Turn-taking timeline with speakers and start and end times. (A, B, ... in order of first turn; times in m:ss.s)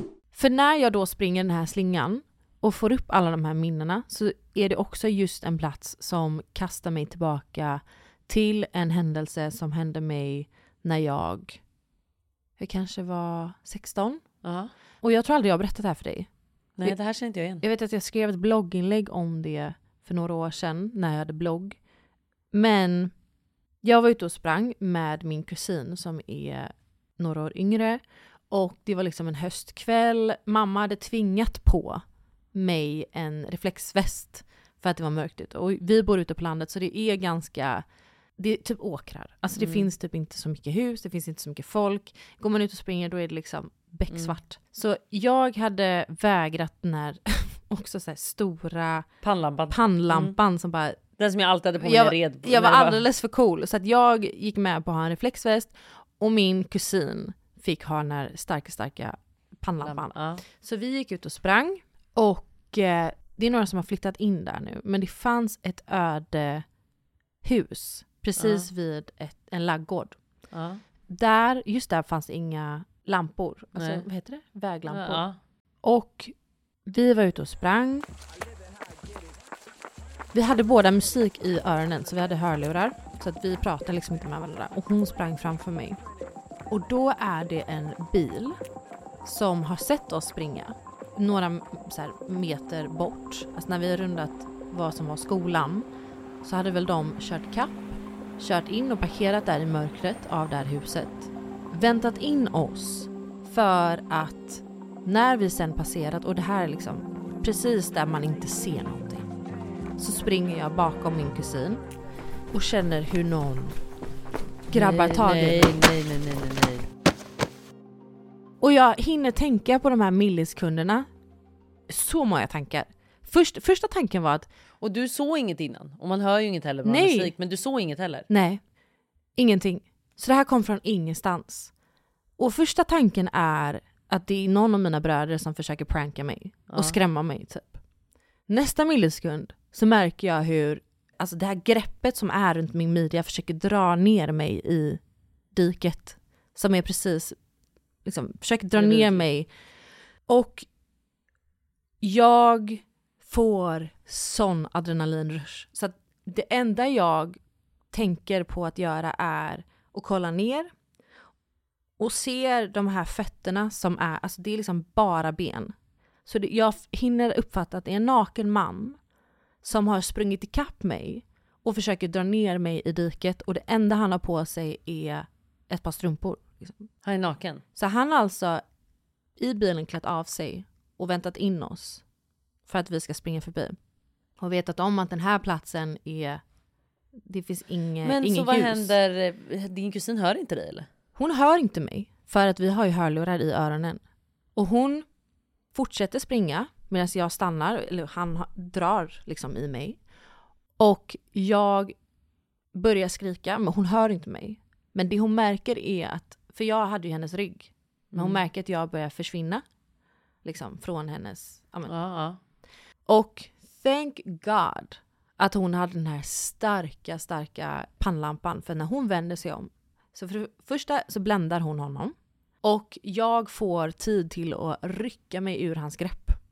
0:00.4-0:11.6 A
0:12.6-0:14.2 A
0:14.4-0:14.7 B
0:15.0-0:16.3 A
0:16.8-0:17.6 B
0:17.6-0:21.8 A
0:22.5-0:23.1 A
0:23.8-0:32.0 A
0:32.5-0:37.8 A
0:38.4-0:49.1 A
0:39.6-0:39.9 B
0:49.2-0:50.4 B
0:49.7-0:51.0 A
0:51.2-0:53.0 B
0:51.8-1:06.6 A
0:59.8-1:00.4 B
1:07.4-1:10.2 A
1:08.4-1:08.7 B
1:10.5-1:10.8 B
1:11.1-1:15.2 A
1:13.8-1:14.0 B
1:14.9-1:15.4 B
1:15.8-1:16.3 A
1:16.9-1:18.1 A
1:20.3-1:26.0 A
1:26.7-1:28.6 A
1:29.2-1:35.9 A
1:36.4-1:49.2 A
1:50.0-1:51.8 A
1:52.5-1:53.8 A
1:54.7-1:55.8 A
1:54.7-1:56.9 B
1:58.6-2:01.1 A
2:01.9-2:04.5 A
2:04.8-2:08.3 B
2:06.8-2:07.3 A
2:08.3-2:08.6 A
2:09.4-2:11.7 A
2:12.4-2:17.8 A
2:18.5-2:25.0 A
2:25.5-2:27.4 A
2:28.1-2:29.5 A
2:28.8-2:29.3 B
2:30.3-2:30.6 A
2:32.0-2:37.4 A
2:37.9-2:40.7 A
2:42.0-2:45.7 A
2:46.3-2:49.0 A
2:49.6-2:56.9 A
2:57.0-2:57.6 B
2:57.8-2:58.6 A
2:59.4-3:02.0 A
3:02.7-3:03.8 A
3:04.4-3:06.4 A
3:07.2-3:08.9 A
3:08.0-3:10.9 B
3:11.2-3:14.0 A
3:14.6-3:15.0 A
3:15.7-3:20.0 A
3:20.8-3:21.9 A
3:22.8-3:29.6 A
3:28.1-3:28.4 B
3:30.4-3:31.9 A
3:31.9-3:32.4 B
3:33.1-3:46.4 A